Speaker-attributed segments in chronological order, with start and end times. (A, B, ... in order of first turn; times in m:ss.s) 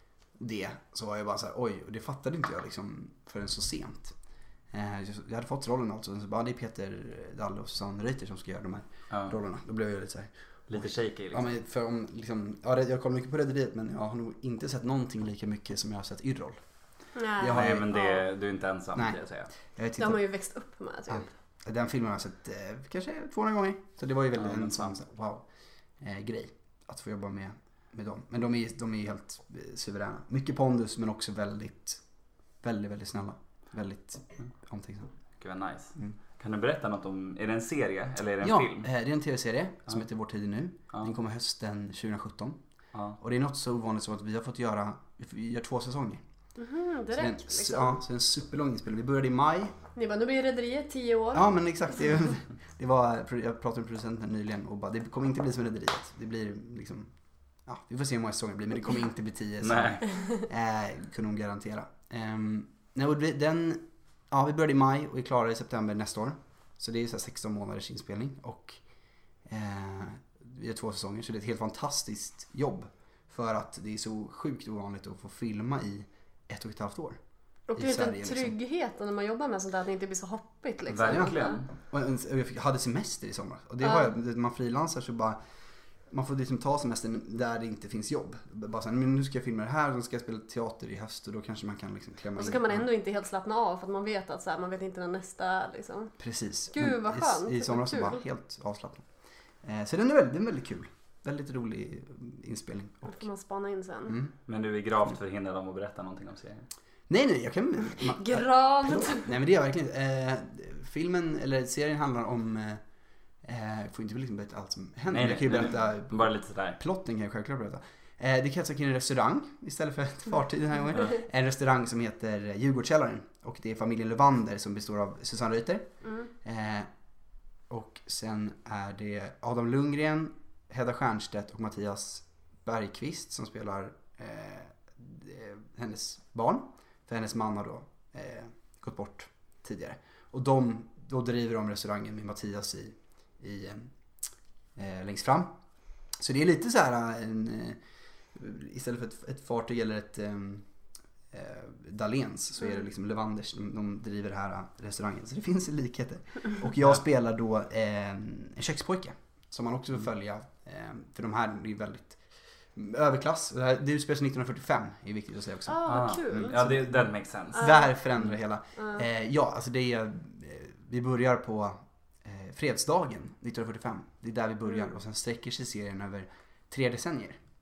0:00.4-0:04.1 A
0:04.7-0:16.6 A
0:09.1-0:09.4 B
0:10.7-0:11.5 B
0:17.1-0:18.2 C
0:17.4-0:18.0 A
0:17.4-0:19.5 B
0:19.8-0:20.2 A
0:20.0-0:21.3 C
0:21.1-0:25.4 A
0:24.3-0:24.9 B
0:26.0-0:32.0 A
0:32.6-0:35.1 A
0:35.4-0:38.9 B
0:38.4-0:42.6 A
0:43.2-0:46.2 A
0:46.6-0:48.0 C
0:47.1-0:49.7 A
0:49.9-0:51.5 C
0:51.3-0:57.1 A
0:57.6-1:08.8 A
0:59.6-1:00.0 B
1:09.4-1:17.2 A
1:17.7-1:21.6 C
1:17.8-1:18.5 A
1:20.9-1:21.7 B
1:21.1-1:25.4 A
1:23.8-1:24.1 C
1:26.1-1:32.8 A
1:32.4-1:36.1 C
1:36.2-1:39.1 A
1:36.7-1:38.2 C
1:39.6-1:43.2 A
1:43.0-1:44.2 C
1:44.1-1:44.3 A
1:44.5-1:46.7 B
1:47.1-1:52.8 A
1:48.0-1:49.3 C
1:53.4-2:05.8 A
1:55.1-1:56.8 B
2:06.0-2:06.3 C
2:06.4-2:06.9 A
2:07.7-2:23.9 A
2:24.8-2:25.5 A
2:26.2-2:27.8 A
2:28.3-2:30.7 A
2:31.3-2:42.2 A
2:42.7-2:57.4 A
2:45.6-2:46.6 C
2:45.8-2:47.8 B
2:47.5-2:47.9 C